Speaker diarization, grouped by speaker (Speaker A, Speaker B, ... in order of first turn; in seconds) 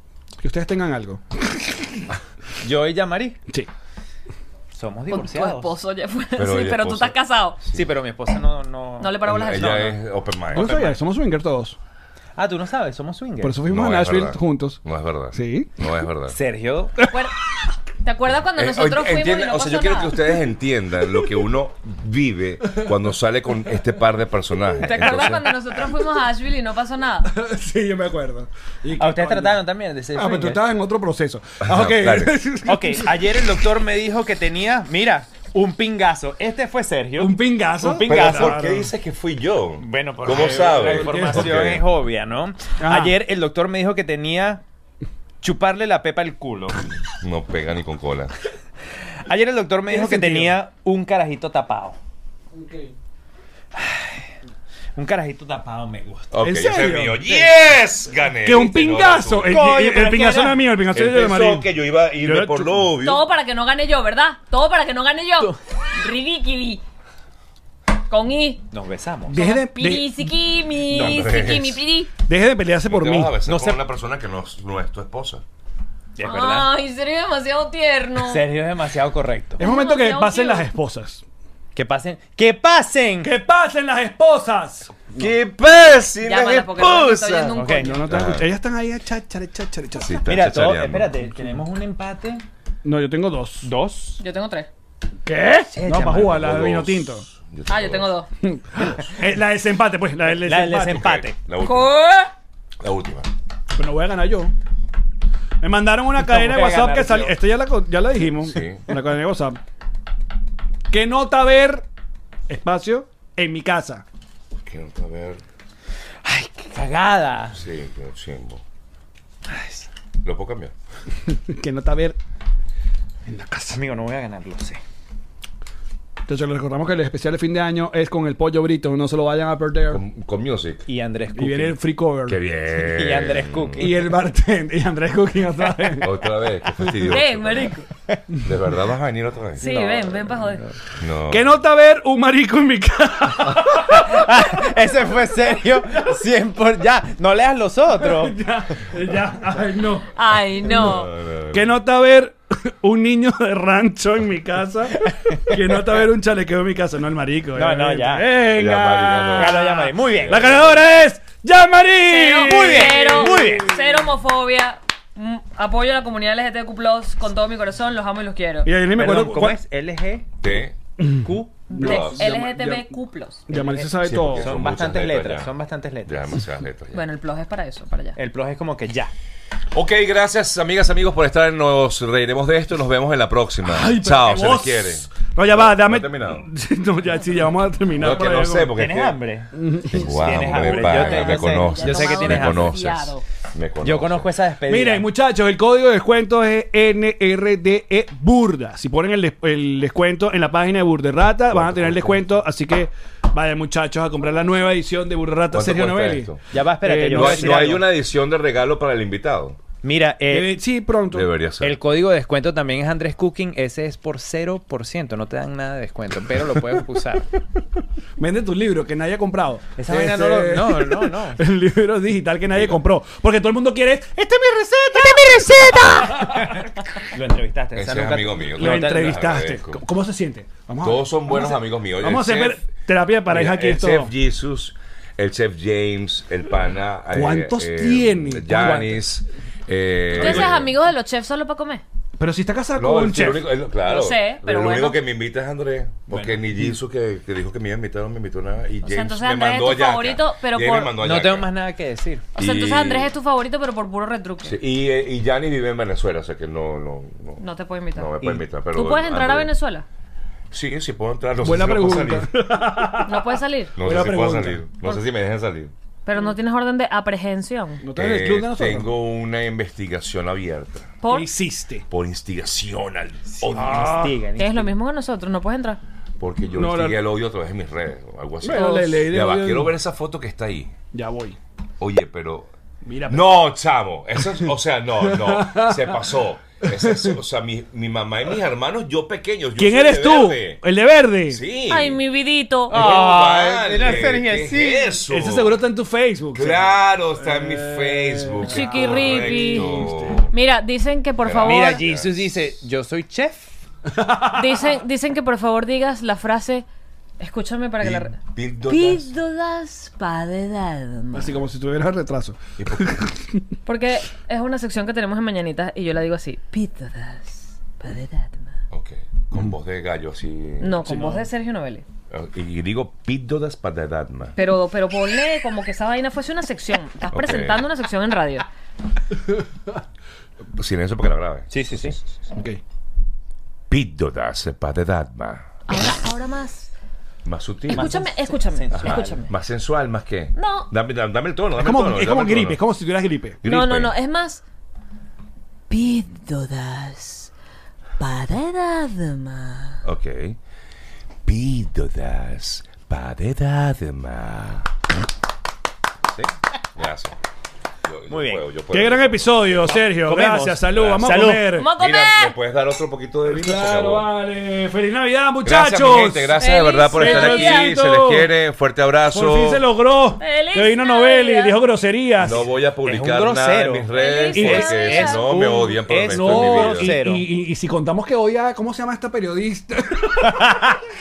Speaker A: 0.4-2.0, 10.5-11.8, 13.4-14.8, 15.3-15.7, 27.2-29.6, 30.1-33.4, 37.2-38.9, 40.8-41.6, 42.8-43.2, 49.9-50.6, 52.5-52.9, 56.4-57.4, 58.4-62.9, 69.3-70.3, 72.3-73.4, 79.6-81.2, 83.2-85.3, 87.8-90.3, 92.8-93.7, 95.2-97.2, 98.4-101.1, 103.7-104.5, 105.6-109.6, 110.9-111.8, 112.5-114.0, 121.3-122.2, 123.3-123.8, 126.3-130.0, 131.3-132.4, 133.8-136.2, 136.8-137.2, 141.3-144.2, 148.0-150.1, 151.5-163.7, 168.6-169.6, 171.0-172.9, 173.5-174.5, 183.6-188.7, 189.5-190.9, 194.7-207.8, 210.3-211.3, 218.2-226.6, 228.6-234.1, 237.1-239.0, 240.2-240.6, 242.2-243.5, 261.4-263.2, 263.8-264.6, 267.8-268.9, 271.1-271.9, 273.5-274.2, 276.5-277.0, 278.4-279.7, 280.9-281.4, 282.8-283.2, 285.0-286.0, 286.6-287.1, 289.6-291.4, 295.1-300.2, 303.9-304.4, 311.1-313.4, 320.8-321.3, 332.3-332.6, 341.6-343.4, 358.7-361.7, 363.3-366.4, 366.9-368.3, 369.1-372.4, 376.1-380.7
Speaker B: 2.6-3.4, 4.7-5.8, 7.7-9.9, 10.5-11.0, 12.3-13.6, 16.3-17.0, 28.9-30.6, 32.6-38.6, 39.8-44.6, 45.4-46.8, 49.2-52.0, 53.7-54.3, 54.9-56.4, 59.5-60.8, 68.7-69.5, 73.4-73.8, 76.2-76.7, 78.2-79.6, 81.7-83.3, 87.5-88.0, 90.2-92.4, 93.6-94.2, 95.7-96.5, 100.4-101.4, 106.2-107.4, 116.2-117.6, 119.5-119.9, 123.7-124.8, 130.9-131.8, 132.8-134.1, 139.6-140.4, 143.8-148.4, 155.0-155.6, 157.5-158.3, 159.3-160.4, 162.4-163.8, 168.9-170.3, 171.2-171.7, 173.5-176.3, 178.2-179.1, 188.7-192.8, 193.8-195.1, 206.5-207.9, 209.8-210.8, 211.6-217.3, 219.7-221.4, 224.9-229.2, 246.1-246.4, 250.9-252.3, 258.2-258.4, 273.3-274.7, 292.7-295.0, 301.4-303.6, 331.5-332.0, 337.7-339.3, 358.1-358.4, 359.7-361.6, 372.8-377.3, 380.2-380.8
Speaker C: 5.1-7.6, 9.0-9.9, 17.1-17.4, 18.0-20.3, 24.8-27.3, 63.0-66.8, 68.1-68.7, 69.3-72.1, 76.2-78.5, 79.6-80.7, 86.2-88.1, 94.2-94.7, 97.7-98.3, 101.6-102.3, 137.1-137.8, 139.6-140.6, 150.2-151.1, 162.0-168.7, 171.7-173.5, 176.9-178.2, 190.5-193.2, 240.1-241.8, 243.8-245.0, 248.8-250.9, 252.4-254.6, 257.4-258.1, 258.7-259.8, 263.0-263.8, 266.1-267.8, 271.0-271.3, 274.4-275.8, 278.5-279.0, 291.7-293.0, 298.4-301.8, 304.2-306.6, 307.2-311.4, 313.6-318.6, 320.6-321.8, 324.4-328.5, 335.7-336.7, 337.7-339.3, 340.3-340.7, 343.4-344.4, 345.7-347.3, 348.0-349.8, 361.5-362.3, 366.4-367.7, 370.2-371.6, 373.9-375.3
Speaker D: 6.3-7.9, 9.2-10.8, 13.7-16.4, 18.6-25.5, 31.6-32.4, 38.0-41.9, 47.2-48.3, 56.3-59.7, 60.9-63.3, 70.8-71.8, 72.8-75.4, 85.2-88.5, 90.0-91.1, 96.2-98.1, 100.9-102.0, 102.8-103.3, 108.4-108.9, 114.6-115.4, 117.5-118.6, 120.2-120.7, 129.9-130.8, 132.3-133.9, 136.0-137.8, 138.4-139.7, 141.0-141.5, 150.7-151.7, 158.4-160.8, 170.4-170.8, 171.8-172.2, 174.0-175.5, 176.1-177.0, 179.7-186.5, 187.9-189.2, 189.9-194.3, 201.5-202.2, 205.5-206.4, 207.1-209.6, 211.1-211.8, 222.5-222.8, 227.7-229.8, 230.8-232.7, 233.3-240.8, 242.8-251.5, 252.3-253.1, 254.4-257.4, 257.9-259.5, 260.5-262.3, 263.8-265.7, 267.9-271.0, 271.9-274.0, 276.2-280.7, 281.8-282.5, 283.1-290.6, 291.3-292.0, 292.7-295.6, 296.3-300.3, 301.2-302.5, 307.8-309.1, 312.6-312.9, 318.7-320.8, 322.1-324.4, 327.1-327.6, 330.6-332.0, 333.7-335.5, 337.2-338.0, 338.7-342.6, 343.4-343.9, 349.8-350.4, 351.2-354.7, 356.1-357.2, 357.8-359.8, 360.8-361.1, 361.7-364.1, 365.4-369.7, 372.2-376.9